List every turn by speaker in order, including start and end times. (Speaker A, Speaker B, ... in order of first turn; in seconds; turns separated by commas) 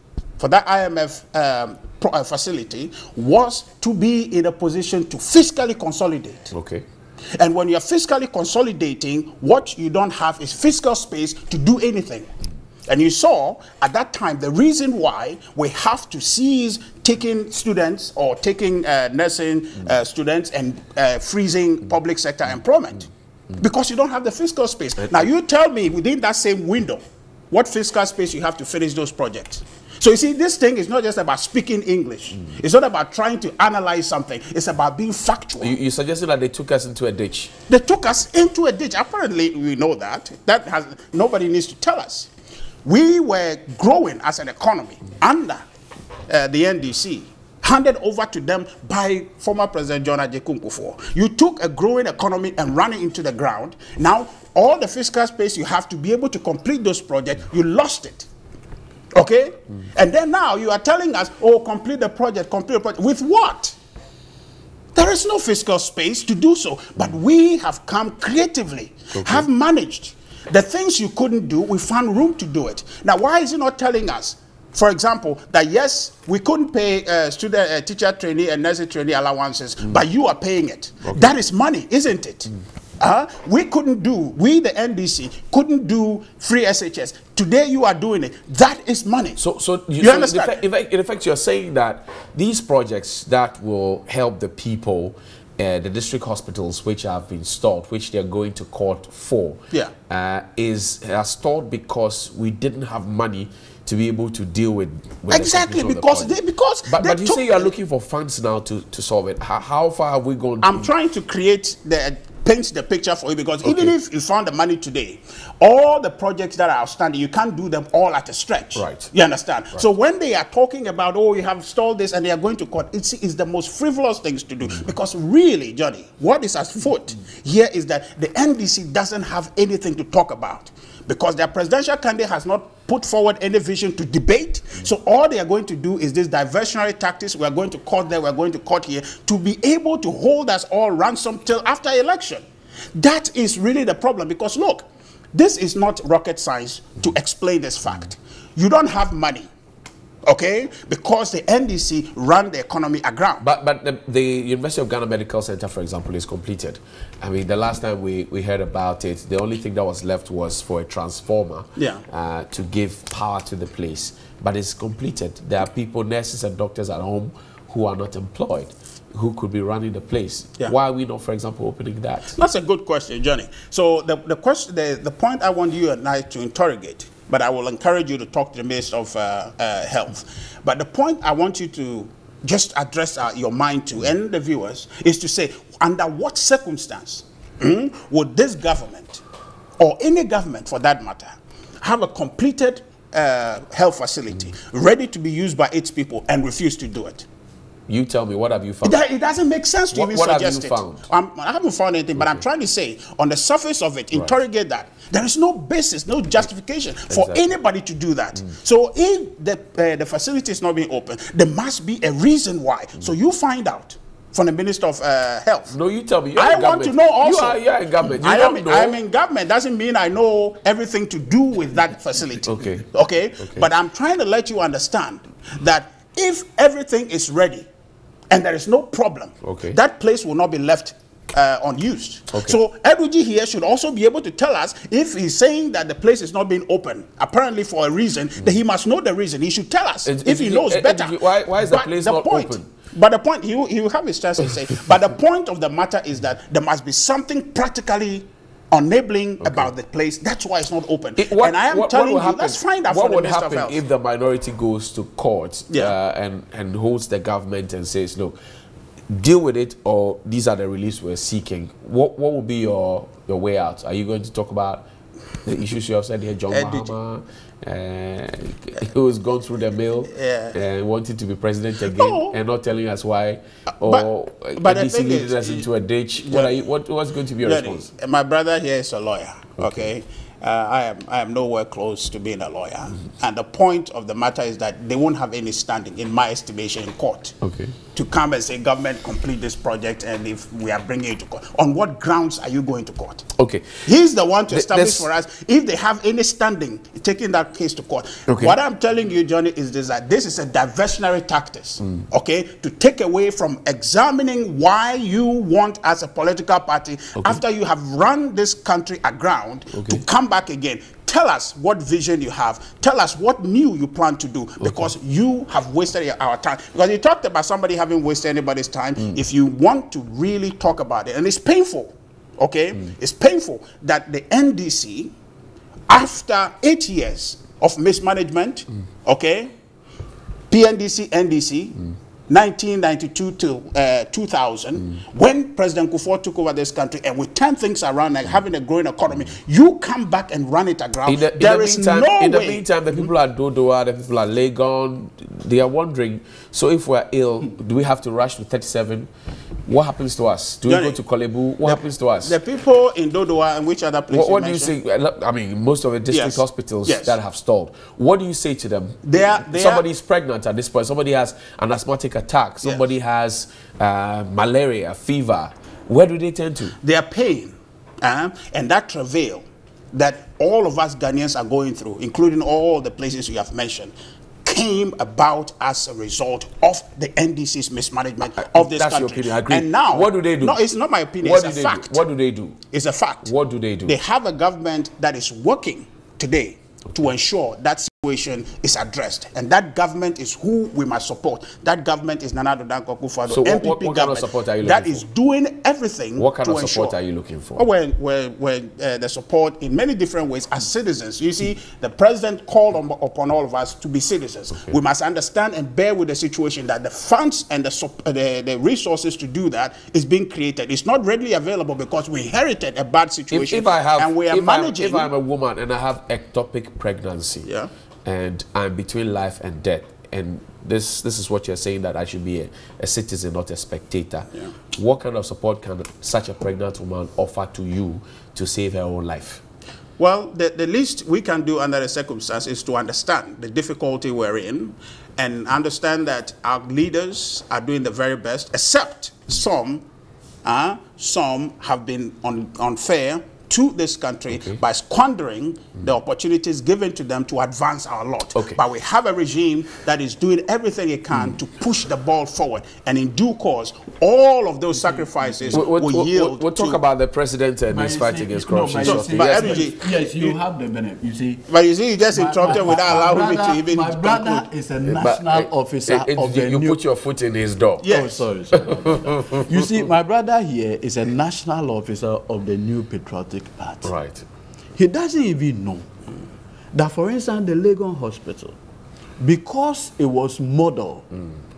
Speaker A: 0.4-6.5, Speaker B: 6.5-6.8, Speaker A: 7.3-12.3, Speaker A: 12.9-35.8, Speaker B: 35.6-37.5, Speaker A: 37.7-42.3, Speaker A: 42.8-45.6, Speaker A: 46.3-58.3, Speaker A: 59.1-63.8, Speaker A: 64.9-89.4, Speaker B: 69.1-69.5, Speaker B: 89.4-106.3, Speaker A: 90.0-90.6, Speaker A: 105.3-107.7, Speaker B: 106.9-110.9, Speaker A: 110.6-142.4, Speaker B: 113.6-113.9, Speaker B: 118.8-119.1, Speaker A: 142.9-149.5, Speaker A: 150.2-153.4, Speaker B: 153.4-172.4, Speaker A: 161.8-162.0, Speaker A: 172.3-189.2, Speaker A: 189.8-197.2, Speaker B: 197.9-199.0, Speaker A: 198.8-215.8, Speaker B: 199.9-201.0, Speaker B: 207.1-207.4, Speaker B: 215.7-219.0, Speaker A: 216.3-227.7, Speaker B: 222.4-222.8, Speaker B: 223.4-223.7, Speaker A: 228.3-253.8, Speaker B: 229.4-229.8, Speaker B: 240.1-242.7, Speaker B: 251.2-258.4, Speaker B: 259.1-264.9, Speaker B: 265.4-277.9, Speaker A: 266.5-266.9, Speaker A: 270.1-270.6, Speaker A: 271.9-272.4, Speaker A: 273.8-275.7, Speaker A: 276.2-276.6, Speaker A: 277.4-287.4, Speaker B: 279.6-279.9, Speaker B: 287.4-287.7, Speaker A: 287.9-293.3, Speaker B: 293.4-293.8, Speaker A: 293.8-325.1, Speaker B: 294.5-295.1, Speaker B: 298.3-298.5, Speaker B: 309.7-310.0, Speaker B: 314.6-314.9, Speaker A: 325.9-329.5, Speaker A: 330.5-342.6, Speaker B: 341.1-349.1, Speaker B: 349.6-352.4, Speaker A: 350.6-351.0, Speaker A: 351.6-354.7, Speaker B: 354.1-366.7, Speaker A: 356.1-357.2, Speaker A: 359.0-359.8, Speaker A: 366.8-373.9, Speaker A: 374.4-382.0, Speaker B: 378.3-380.6, Speaker B: 381.2-382.6, Speaker A: 382.7-383.3, Speaker B: 383.2-383.9, Speaker A: 383.9-396.9, Speaker B: 393.3-395.0, Speaker B: 396.2-397.6, Speaker A: 397.6-415.1, Speaker B: 413.3-417.5, Speaker B: 418.0-429.4, Speaker A: 430.0-439.8, Speaker A: 440.4-456.8, Speaker C: 454.9-455.6, Speaker B: 455.5-459.7, Speaker C: 457.7-461.4, Speaker A: 458.8-460.4, Speaker A: 461.5-464.4, Speaker C: 462.1-466.8, Speaker B: 464.9-467.9, Speaker A: 467.8-468.2, Speaker C: 467.8-473.9, Speaker B: 468.5-469.7, Speaker B: 473.8-474.2, Speaker C: 474.8-475.9, Speaker C: 476.7-478.6, Speaker C: 479.2-481.0